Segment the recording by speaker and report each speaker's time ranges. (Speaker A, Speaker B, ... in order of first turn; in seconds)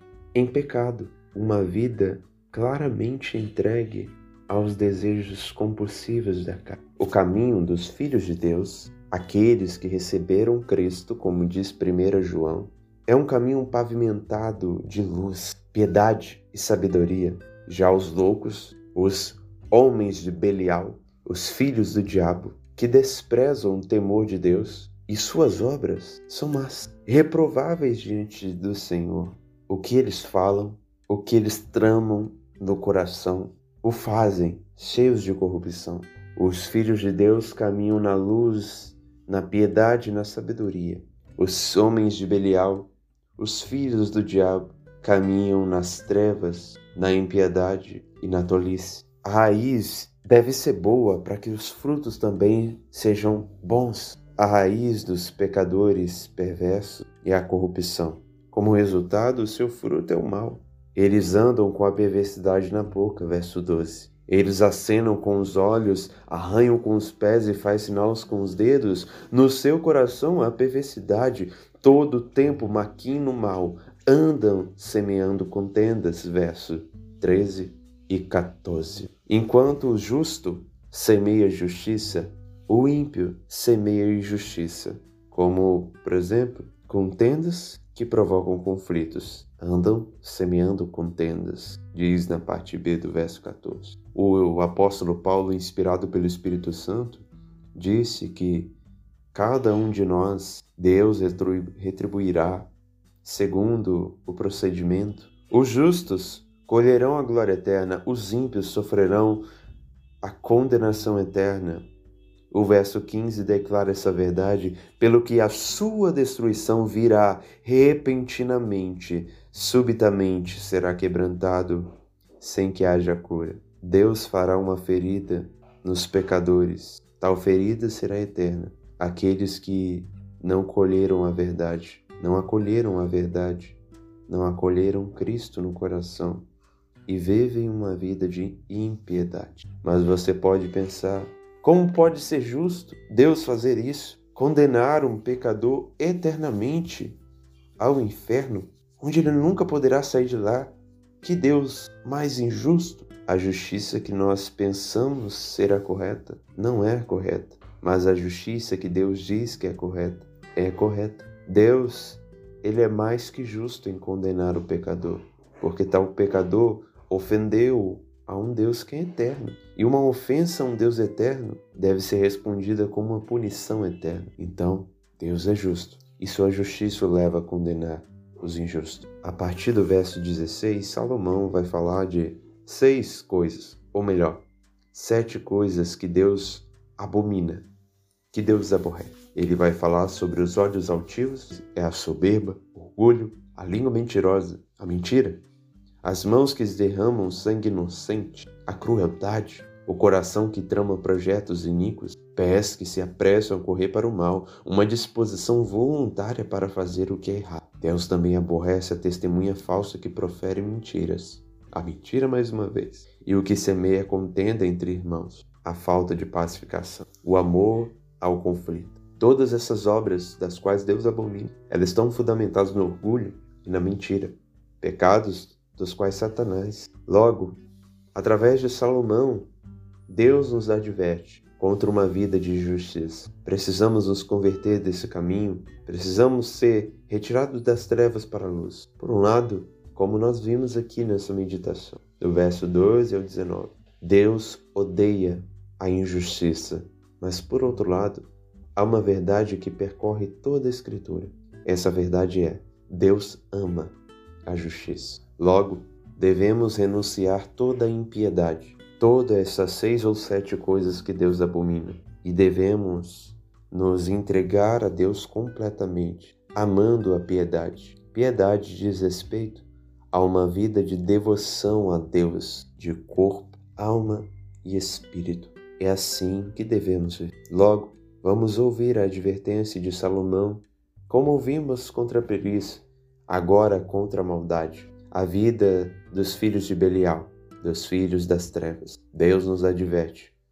Speaker A: 0.3-98.7, 99.3-102.7, 103.2-109.4, 110.2-111.9, 112.5-121.9, 122.4-136.4, 137.1-147.2, 147.8-187.7, 188.3-195.4, 196.0-227.6, 228.1-229.5, 230.1-253.9, 254.4-290.3